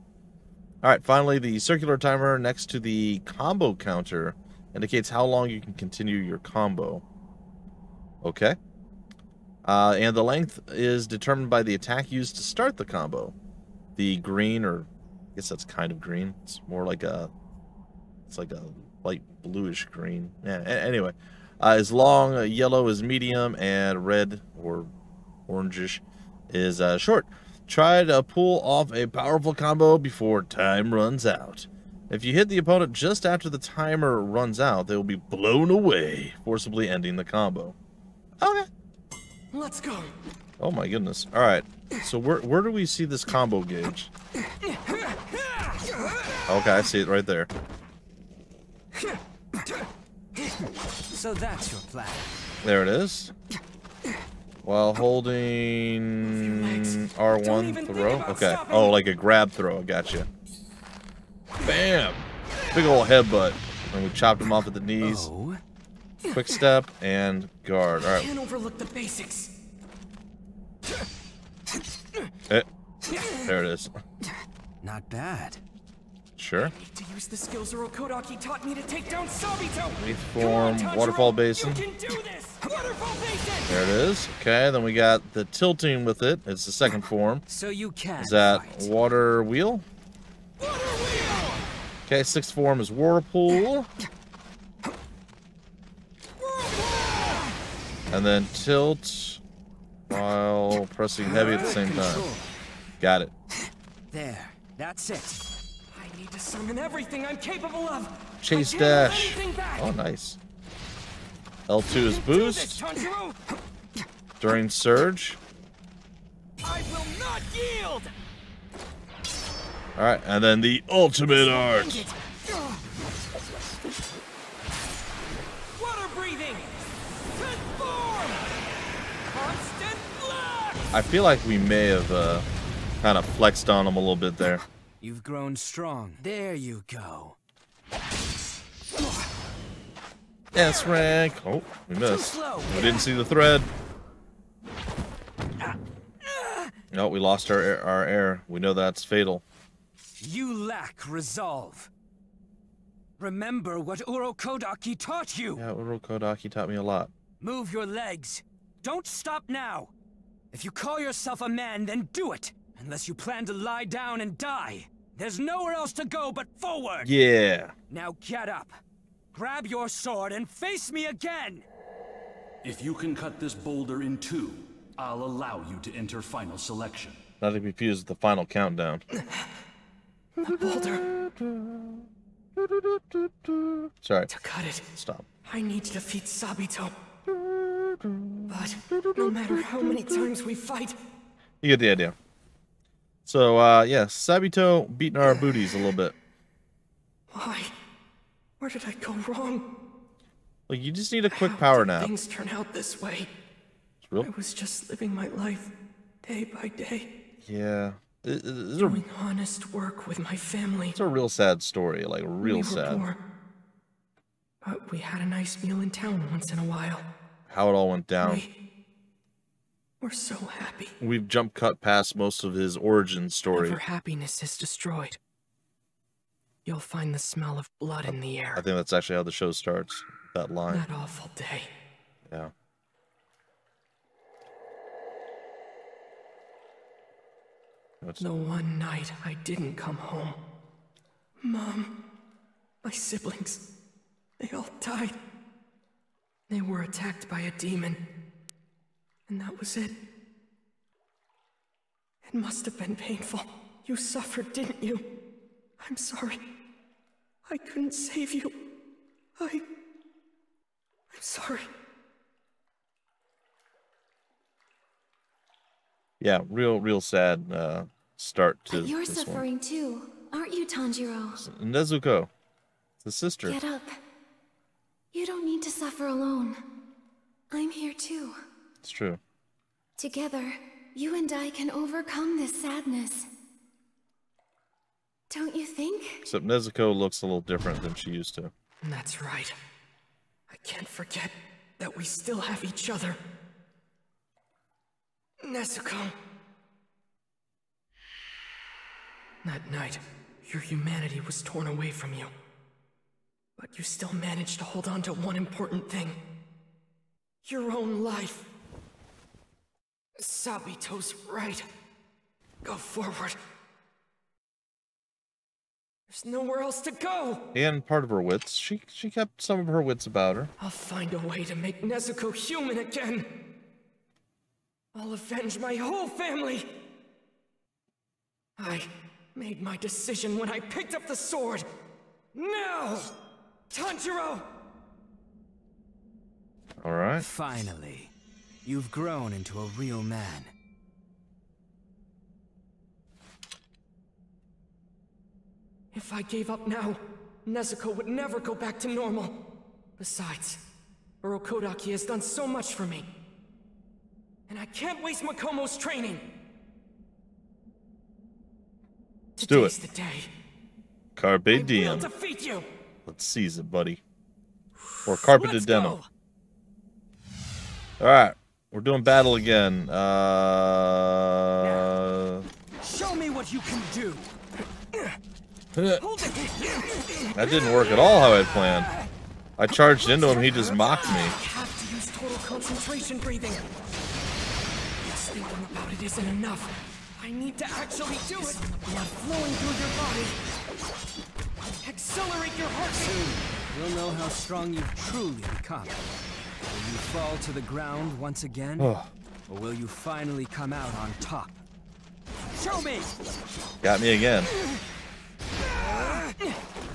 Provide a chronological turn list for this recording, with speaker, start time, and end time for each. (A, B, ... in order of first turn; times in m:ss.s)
0:00.8-0:07.0 A
0:08.2-0:08.6 A
0:09.7-0:13.4 A
0:14.0-0:17.3 A
0:18.3-0:24.9 A
0:25.5-0:37.8 A
0:38.4-0:38.7 A
0:39.5-0:40.2 B
0:40.6-0:44.1 A
0:44.6-0:46.4 B
0:46.5-0:47.5 A
0:50.4-0:52.3 C
0:52.6-0:53.3 A
0:54.6-1:00.3 A
0:56.2-0:59.0 B
1:01.6-1:05.3 A
1:05.0-1:05.6 C
1:06.2-1:08.3 A
1:08.0-1:09.5 B
1:12.5-1:13.9 A
1:14.8-1:15.6 C
1:16.4-1:16.7 A
1:16.6-1:23.8 B
1:20.0-1:21.9 A
1:23.7-1:27.4 A
1:27.5-1:28.9 C
1:28.2-1:29.8 A
1:30.6-1:31.6 B
1:32.1-1:33.9 A
1:36.4-1:37.5 B
1:38.1-1:39.4 A
1:40.1-1:42.3 A
1:41.2-1:42.5 C
1:43.0-1:43.3 A
1:44.1-1:45.5 C
1:45.9-1:49.9 B
1:48.4-1:50.4 A
1:51.7-1:52.8 A
1:51.9-1:53.4 B
1:54.4-1:55.4 A
1:56.6-1:58.1 B
2:00.0-2:02.1 A
2:01.3-2:02.8 B
2:05.8-2:08.5 B
2:09.3-2:10.9 B
2:10.9-2:12.5 A
2:13.0-2:14.6 A
2:15.0-2:17.4 C
2:19.0-2:19.2 C
2:20.5-2:23.7 A
2:22.0-2:23.1 C
2:26.9-2:29.4 A
2:30.2-2:31.9 C
2:33.2-2:35.6 C
2:35.6-2:37.1 A
2:37.4-2:39.9 C
2:40.5-2:47.1 C
2:47.0-2:47.8 A
2:47.9-2:48.8 C
2:49.3-2:51.7 C
2:52.6-2:57.2 D
2:57.4-2:59.0 A
2:59.2-2:59.5 B
3:00.4-3:01.1 B
3:00.5-3:02.1 A
3:02.6-3:04.3 A
3:04.3-3:04.8 B
3:04.9-3:05.3 A
3:05.4-3:06.9 B
3:07.3-3:10.3 A
3:08.5-3:11.0 B
3:11.6-3:12.2 A
3:13.3-3:16.2 A
3:17.3-3:17.7 B
3:18.6-3:19.7 B
3:20.7-3:22.1 A
3:21.3-3:23.3 B
3:24.0-3:24.3 A
3:24.2-3:25.7 B
3:26.2-3:27.1 B
3:27.4-3:29.0 A
3:28.8-3:31.0 B
3:31.0-3:33.1 A
3:32.4-3:33.2 B
3:34.6-3:37.0 B
3:37.5-3:38.5 A
3:38.2-3:38.5 B
3:40.0-3:41.0 B
3:41.0-3:43.8 A
3:43.6-3:45.2 B
3:46.6-3:48.6 B
3:48.0-3:50.9 A
3:50.7-3:51.7 B
3:58.0-3:58.3 A
3:58.2-4:00.4 B
4:01.4-4:01.9 B
4:02.8-4:03.6 B
4:04.4-4:05.2 B
4:06.5-4:08.0 B
4:09.3-4:10.0 B
4:12.3-4:15.1 B
4:15.8-4:16.4 B
4:17.5-4:18.6 B
4:19.4-4:19.6 B
4:21.1-4:21.7 B
4:26.2-4:29.4 A
4:28.7-4:31.4 E
4:31.4-4:32.3 A
4:33.0-4:33.6 A
4:33.4-4:34.0 E
4:35.1-4:36.6 E
4:37.5-4:38.4 E
4:38.8-4:39.2 A
4:40.0-4:43.3 E
4:45.3-4:46.2 E
4:46.2-4:48.5 A
4:48.8-4:49.6 B
4:50.5-4:53.2 B
4:55.4-4:56.1 B
4:59.4-5:02.3 B
5:03.6-5:06.2 B
5:07.4-5:08.5 B
5:10.2-5:11.7 B
5:12.6-5:13.4 B
5:16.1-5:17.5 B
5:17.5-5:20.5 A
5:20.6-5:23.3 B
5:24.9-5:26.7 B
5:28.6-5:31.7 B
5:32.3-5:33.1 B
5:33.7-5:34.5 B
5:36.8-5:37.2 A
5:37.2-5:38.1 C
5:38.6-5:40.5 C
5:45.9-5:49.5 B
5:50.0-5:50.6 B
5:51.2-5:53.1 B
5:54.5-5:56.2 B
5:59.4-6:00.3 B
5:59.4-5:59.8 A
6:01.2-6:02.1 A
6:01.5-6:02.7 B
6:03.1-6:04.0 A
6:05.0-6:06.0 A
6:05.0-6:06.1 B
6:08.0-6:12.5 A
6:11.6-6:11.9 C
6:12.8-6:14.3 C
6:15.8-6:16.0 A
6:16.0-6:17.7 B
6:17.3-6:18.9 A
6:19.6-6:21.4 A
6:20.0-6:23.6 B
6:25.0-6:30.4 B
6:31.8-6:33.2 B
6:33.0-6:36.0 C
6:36.7-6:38.9 C
6:38.8-6:39.1 A
6:39.5-6:41.6 C
6:42.5-6:43.1 C
6:43.8-6:44.5 A
6:45.7-6:46.3 B